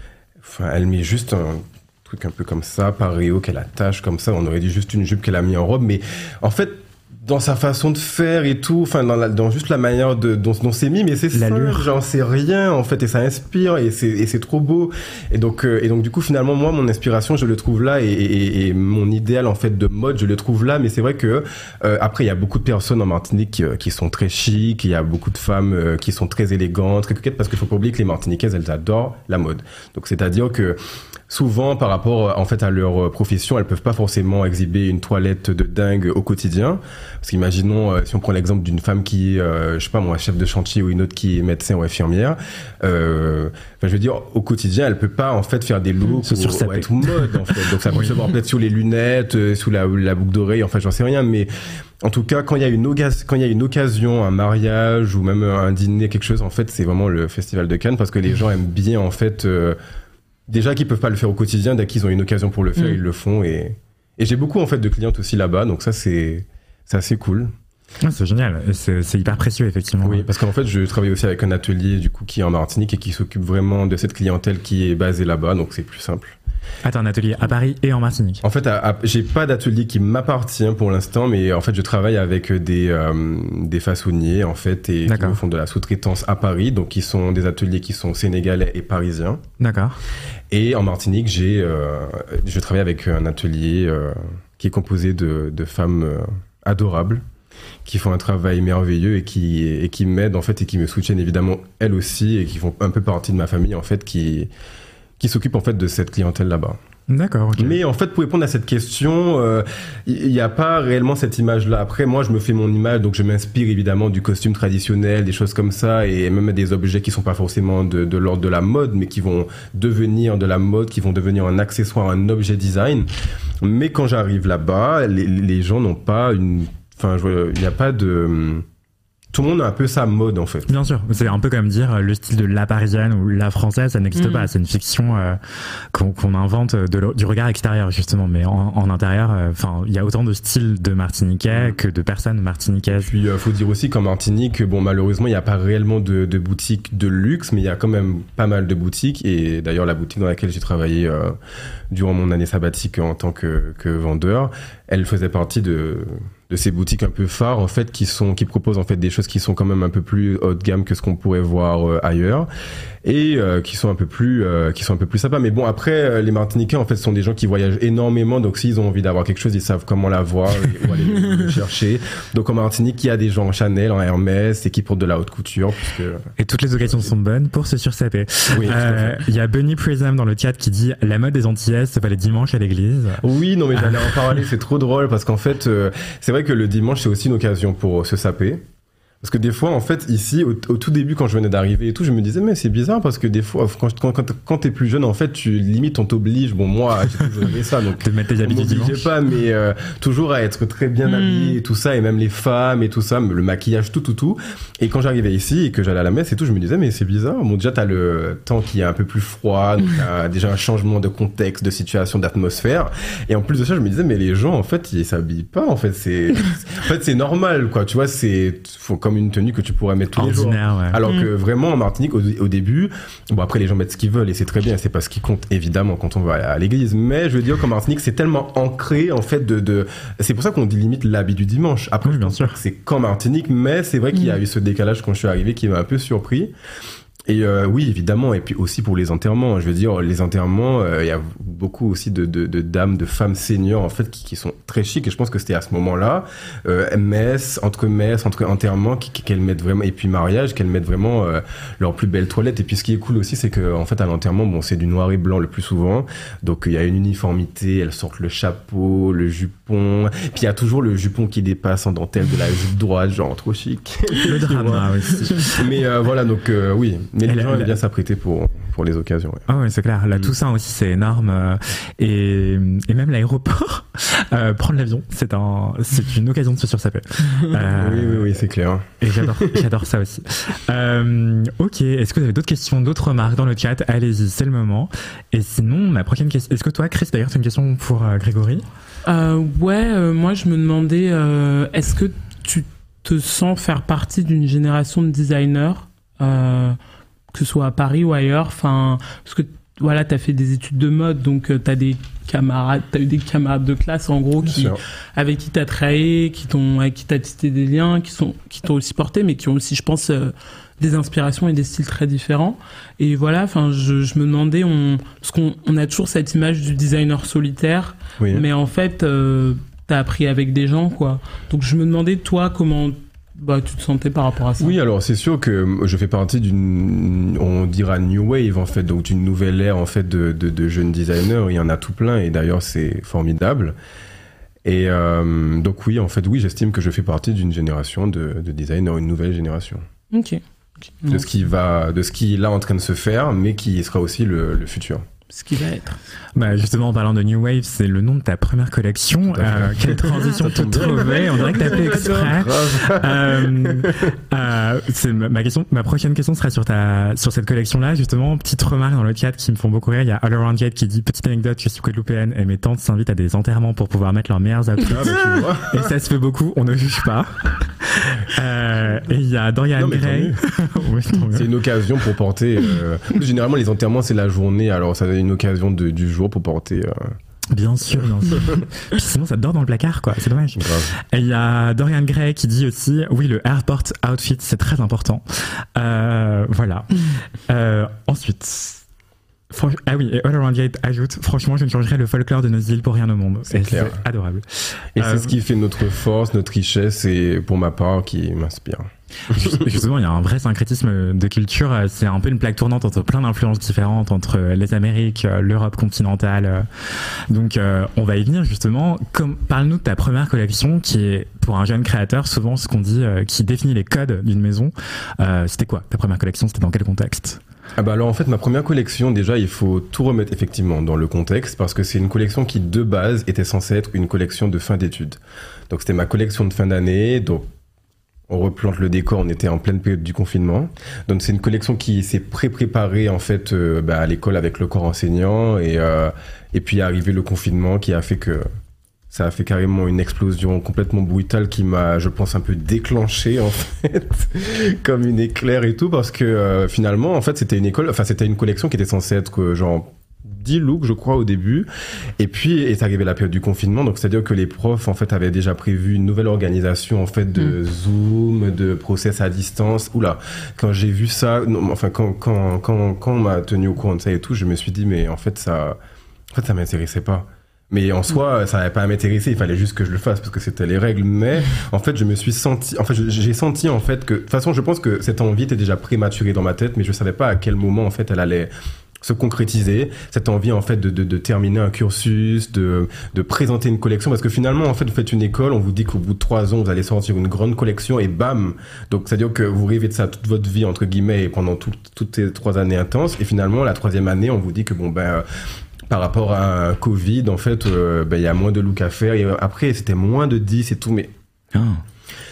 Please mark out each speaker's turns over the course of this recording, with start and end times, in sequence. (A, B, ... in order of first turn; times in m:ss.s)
0:00.4-0:51.5 A
0:11.3-0:11.9 B
0:46.1-0:48.2 B
0:52.0-0:59.8 A
1:00.5-1:07.5 A
1:08.0-1:10.3 B
1:10.0-1:16.4 A
1:16.8-1:18.4 B
1:18.4-1:29.4 A
1:25.1-1:25.4 B
1:29.6-1:30.0 B
1:30.5-1:37.2 A
1:37.8-1:44.5 A
1:45.2-1:46.8 A
1:47.1-1:47.8 B
1:47.6-2:03.1 A
2:03.6-2:08.6 A
2:09.3-2:10.7 A
2:10.7-2:15.4 B
2:14.2-2:14.5 C
2:15.9-2:23.2 B
2:22.9-2:31.4 A
2:31.9-2:42.5 A
2:43.0-2:56.3 A
2:56.4-3:03.2 B
2:58.5-2:59.2 A
3:03.2-3:08.6 A
3:03.8-3:04.4 B
3:09.2-3:56.5 A
3:18.0-3:19.1 B
3:21.1-3:21.6 C
3:40.2-3:41.0 B
3:52.0-3:52.6 B
3:57.3-4:29.5 A
4:24.2-4:25.6 B
4:27.2-4:27.8 B
4:29.5-4:38.3 B
4:37.8-4:39.6 A
4:39.0-4:48.6 B
4:49.0-4:56.8 C
4:57.3-5:24.8 C
5:04.4-5:04.8 A
5:18.2-5:18.4 A
5:24.6-5:33.8 A
5:34.6-5:39.9 A
5:40.1-5:40.4 C
5:41.0-5:41.2 C
5:41.1-5:45.1 A
5:45.3-5:46.0 C
5:46.4-6:11.5 B
5:49.3-5:54.0 A
5:50.9-5:52.3 C
6:04.8-6:05.9 A
6:09.8-6:10.4 A
6:11.3-6:17.2 A
6:17.5-6:28.8 B
6:20.6-6:20.9 A
6:29.5-6:35.3 B
6:33.5-6:34.0 A
6:35.0-6:39.8 A
6:39.3-6:46.7 B
6:47.3-6:57.4 B
6:57.8-7:05.2 A
7:05.7-7:07.5 A
7:08.3-7:18.4 A
7:19.1-7:31.7 A
7:32.2-7:45.8 A
7:46.3-8:15.2 A
8:15.9-8:21.1 A
8:21.5-8:21.8 B